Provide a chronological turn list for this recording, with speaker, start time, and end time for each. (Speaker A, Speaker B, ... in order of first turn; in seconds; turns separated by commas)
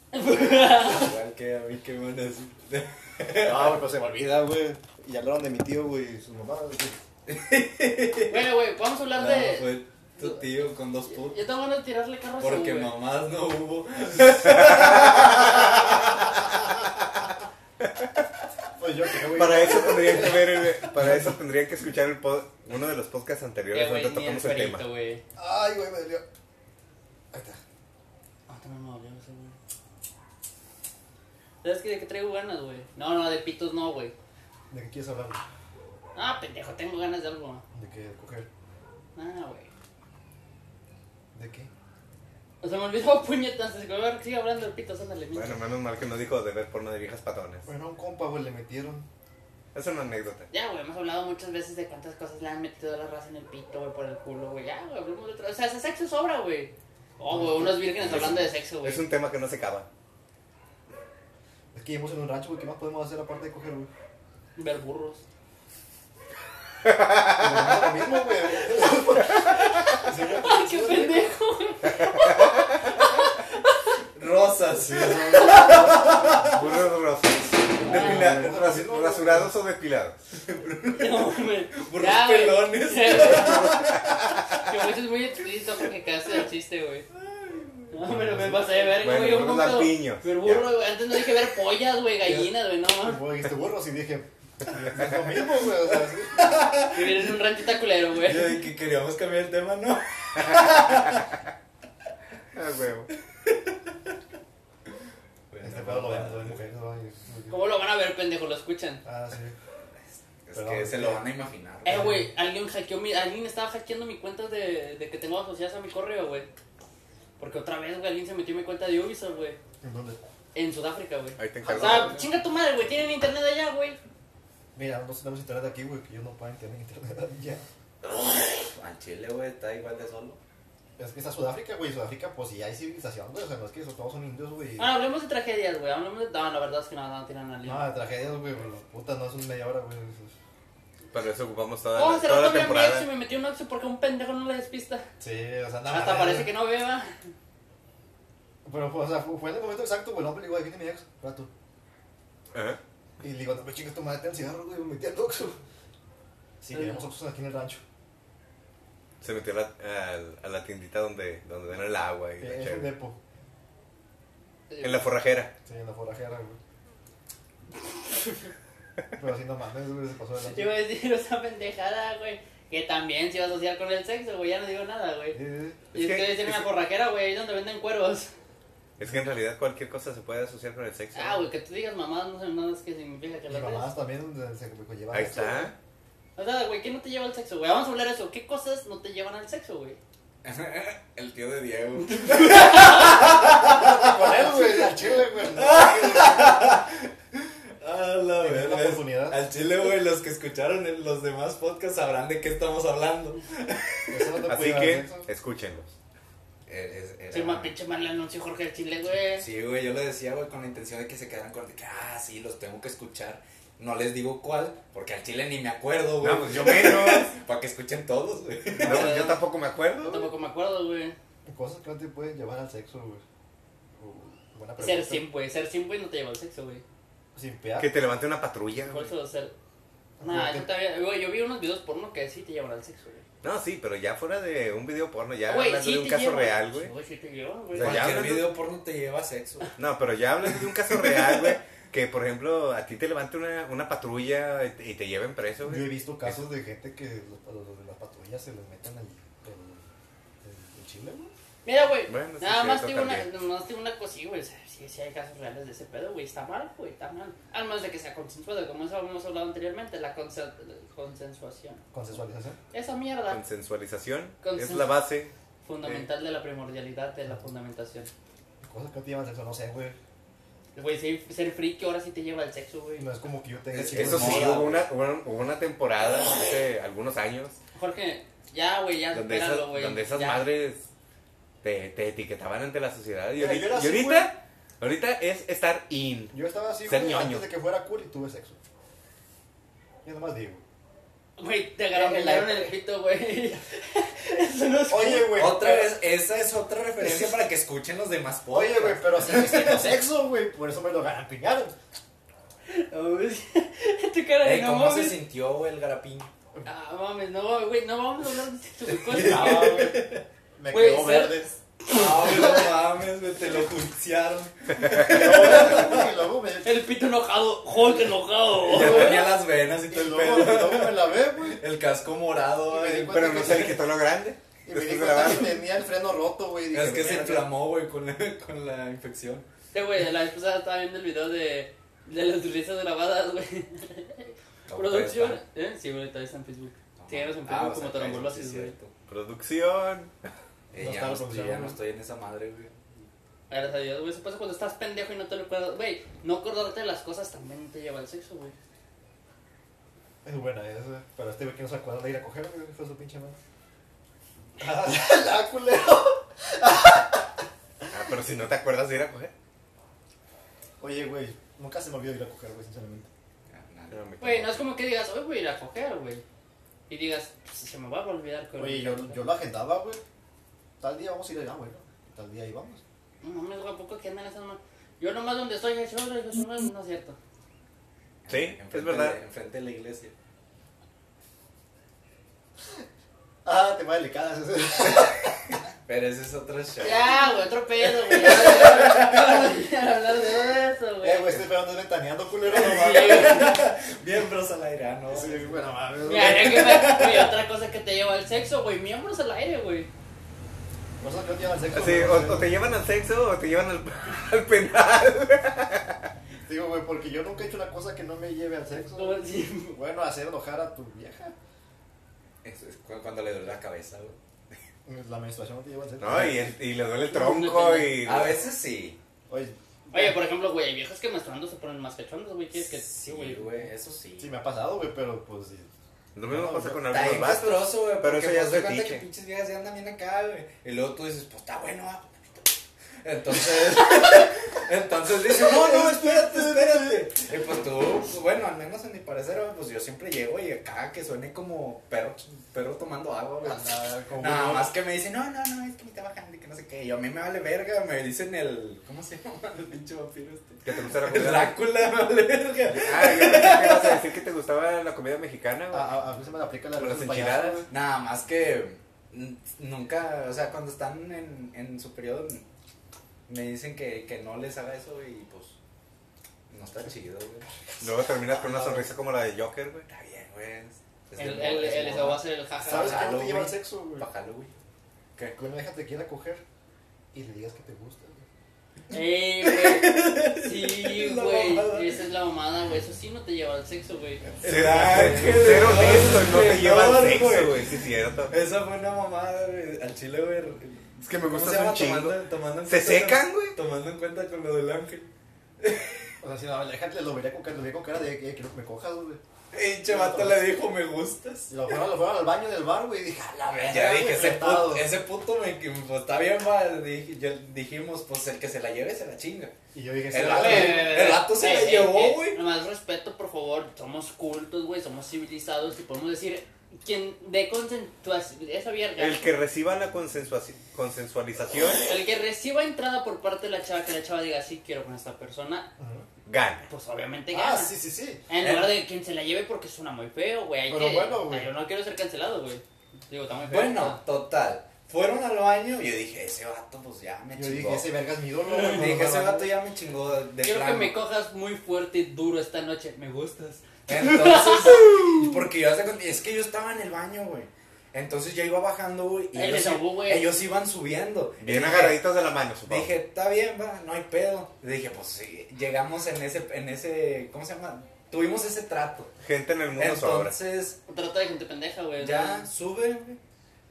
Speaker A: 0.1-1.2, Speaker B: 0.6-3.8, Speaker C: 3.4-7.0, Speaker B: 7.3-8.5, Speaker A: 8.3-10.4, Speaker B: 9.1-11.4, Speaker A: 11.1-12.9, Speaker B: 12.4-16.4, Speaker C: 18.8-21.4, Speaker D: 19.3-24.8, Speaker A: 23.7-25.2, Speaker C: 25.4-26.2, Speaker C: 27.3-27.6, Speaker A: 28.5-29.6, Speaker A: 31.6-34.1, Speaker C: 34.7-35.4, Speaker A: 36.1-37.6, Speaker C: 37.7-38.5, Speaker A: 39.1-39.7, Speaker C: 41.3-41.7, Speaker A: 42.6-45.6, Speaker D: 45.3-47.7, Speaker C: 47.6-49.1, Speaker D: 49.7-50.5, Speaker A: 50.5-59.0, Speaker C: 57.3-58.0, Speaker D: 58.0-59.9, Speaker C: 61.7-63.9, Speaker A: 64.5-65.2, Speaker D: 66.9-67.4, Speaker C: 67.3-71.3, Speaker A: 68.5-68.9, Speaker A: 70.0-73.4, Speaker B: 74.1-76.6, Speaker C: 74.7-76.6, Speaker D: 76.5-80.2, Speaker A: 77.8-78.5, Speaker C: 77.8-79.5, Speaker B: 80.4-84.4, Speaker A: 80.9-84.0, Speaker D: 83.1-84.6, Speaker A: 84.5-87.0, Speaker B: 87.1-88.0, Speaker A: 87.9-93.2, Speaker C: 88.0-88.8, Speaker D: 89.0-90.7, Speaker C: 93.0-96.7, Speaker B: 96.3-97.3, Speaker A: 96.9-98.6, Speaker B: 98.2-101.3, Speaker D: 102.5-103.1, Speaker B: 103.4-103.9, Speaker B: 105.5-106.6, Speaker C: 105.6-107.6, Speaker A: 107.5-109.0, Speaker C: 109.0-109.5, Speaker B: 110.4-112.1, Speaker C: 110.5-111.2, Speaker A: 111.8-116.5, Speaker C: 111.8-112.3, Speaker A: 117.4-119.6, Speaker C: 119.8-120.2, Speaker A: 120.5-124.0, Speaker D: 121.4-122.2, Speaker C: 121.6-122.2, Speaker C: 124.7-127.6, Speaker B: 128.0-130.4, Speaker C: 131.0-134.9, Speaker A: 134.8-137.9, Speaker C: 137.6-140.3, Speaker D: 141.1-143.1, Speaker A: 141.9-145.1, Speaker C: 145.2-146.5, Speaker A: 145.9-147.1, Speaker C: 148.6-151.5, Speaker D: 152.5-152.8, Speaker C: 153.2-155.6, Speaker C: 156.6-157.8, Speaker D: 159.2-162.9, Speaker C: 162.4-163.2, Speaker A: 164.7-165.0, Speaker D: 164.8-165.5, Speaker C: 165.6-166.6, Speaker C: 169.2-170.8, Speaker A: 170.4-175.4, Speaker C: 175.3-175.8, Speaker D: 175.9-176.7, Speaker A: 175.9-178.3, Speaker D: 179.0-181.5, Speaker A: 181.1-183.8, Speaker C: 183.5-185.7, Speaker D: 185.1-185.7, Speaker A: 186.3-190.0, Speaker B: 190.4-204.4, Speaker A: 192.0-193.2, Speaker C: 193.5-196.6, Speaker C: 198.4-199.4, Speaker C: 204.1-205.3, Speaker D: 204.5-205.9, Speaker B: 206.7-207.7, Speaker A: 207.3-209.4, Speaker B: 209.4-219.3, Speaker D: 216.2-217.3, Speaker A: 218.8-219.4, Speaker D: 218.8-220.3, Speaker A: 220.0-221.2, Speaker C: 221.4-223.2, Speaker C: 223.9-225.2, Speaker A: 224.8-226.8, Speaker C: 227.3-227.9, Speaker D: 227.8-229.1, Speaker A: 228.9-229.5, Speaker C: 230.2-230.7, Speaker A: 230.2-233.2, Speaker D: 233.4-236.9, Speaker A: 235.5-238.2, Speaker D: 237.7-238.5, Speaker B: 237.8-239.7, Speaker D: 239.8-246.4, Speaker B: 240.9-241.5, Speaker C: 245.6-249.9, Speaker C: 250.4-251.3, Speaker A: 251.6-261.8, Speaker D: 252.1-253.2, Speaker C: 261.9-262.6, Speaker A: 262.7-263.4, Speaker D: 263.3-265.3, Speaker A: 264.4-264.9, Speaker A: 265.6-268.1, Speaker C: 268.6-270.0, Speaker A: 270.7-273.1, Speaker C: 273.0-274.7, Speaker B: 273.7-274.9, Speaker D: 273.9-277.6, Speaker A: 277.7-280.4, Speaker D: 279.1-280.8, Speaker D: 281.6-287.4, Speaker C: 283.3-284.3, Speaker C: 286.3-288.6, Speaker C: 290.0-290.6, Speaker A: 291.4-295.6, Speaker C: 291.9-292.7, Speaker C: 294.9-295.9, Speaker B: 295.3-300.0, Speaker C: 297.0-297.3, Speaker C: 298.5-301.7, Speaker A: 302.7-305.2, Speaker B: 304.4-306.3, Speaker A: 306.6-309.9, Speaker B: 308.9-310.2, Speaker C: 309.1-311.6, Speaker A: 310.7-312.6, Speaker B: 311.9-316.1, Speaker C: 315.0-316.8, Speaker A: 316.6-319.3, Speaker B: 318.6-323.8, Speaker C: 318.7-319.2, Speaker C: 319.9-321.6, Speaker C: 322.7-323.8, Speaker D: 323.1-325.6, Speaker C: 324.6-327.5, Speaker B: 326.7-329.4, Speaker A: 329.7-338.7, Speaker B: 334.7-335.4, Speaker B: 337.0-338.9, Speaker D: 339.1-340.1, Speaker B: 340.7-343.1, Speaker C: 340.8-341.8, Speaker A: 343.5-348.5, Speaker C: 350.2-353.4, Speaker C: 354.6-357.3, Speaker D: 357.9-359.3, Speaker C: 360.8-363.1, Speaker B: 363.5-364.0, Speaker D: 363.9-364.6, Speaker A: 364.2-366.2, Speaker A: 366.9-369.2, Speaker C: 368.6-370.0, Speaker C: 370.8-372.8, Speaker A: 373.2-377.2, Speaker B: 378.2-380.1, Speaker D: 378.3-379.2, Speaker C: 383.4-385.4, Speaker B: 385.9-387.1, Speaker A: 386.8-391.4, Speaker B: 388.0-389.4, Speaker C: 391.0-393.5, Speaker B: 392.5-397.3, Speaker A: 392.5-393.6, Speaker C: 395.1-396.8, Speaker A: 396.0-399.9, Speaker C: 401.0-402.5, Speaker D: 401.7-406.0, Speaker C: 406.4-411.3, Speaker A: 408.9-409.8, Speaker B: 412.4-414.2, Speaker C: 414.9-416.5, Speaker D: 416.0-418.4, Speaker A: 417.1-418.1, Speaker B: 418.0-419.0, Speaker C: 419.3-420.2, Speaker A: 419.9-423.6, Speaker B: 422.5-424.4, Speaker C: 424.2-425.7, Speaker D: 426.1-429.0, Speaker C: 426.2-427.4, Speaker B: 426.8-454.1, Speaker C: 435.3-437.1, Speaker C: 443.4-444.7, Speaker D: 450.6-451.6, Speaker D: 452.7-455.9, Speaker C: 455.7-457.7, Speaker D: 456.8-457.6, Speaker B: 457.7-462.4, Speaker B: 463.3-465.6, Speaker B: 466.5-467.5, Speaker D: 467.8-469.9, Speaker B: 468.3-468.9, Speaker B: 469.9-474.5, Speaker A: 471.2-473.1, Speaker C: 472.6-474.1, Speaker C: 475.4-476.4, Speaker C: 477.1-478.2, Speaker A: 478.9-484.2, Speaker B: 479.4-482.0, Speaker B: 484.4-487.7, Speaker D: 484.4-488.3, Speaker B: 488.3-496.1, Speaker D: 491.0-493.6, Speaker C: 496.2-499.2, Speaker B: 499.5-501.5, Speaker C: 499.9-500.4, Speaker C: 501.5-504.9, Speaker B: 503.5-509.5, Speaker C: 509.7-511.0, Speaker B: 510.1-512.4, Speaker A: 510.2-519.3, Speaker D: 519.0-521.8, Speaker A: 521.9-525.7, Speaker C: 525.8-526.0, Speaker D: 526.2-526.7, Speaker A: 526.7-527.7, Speaker C: 527.3-528.2, Speaker A: 528.3-534.0, Speaker B: 528.4-528.8, Speaker C: 530.7-531.5, Speaker B: 533.5-537.9, Speaker C: 537.3-539.5, Speaker B: 538.6-541.0, Speaker A: 540.4-545.1, Speaker B: 543.9-552.0, Speaker A: 549.3-550.3, Speaker D: 551.4-552.9, Speaker B: 552.6-559.1, Speaker D: 559.2-560.3, Speaker B: 559.8-560.8, Speaker A: 560.9-562.5, Speaker B: 562.0-563.2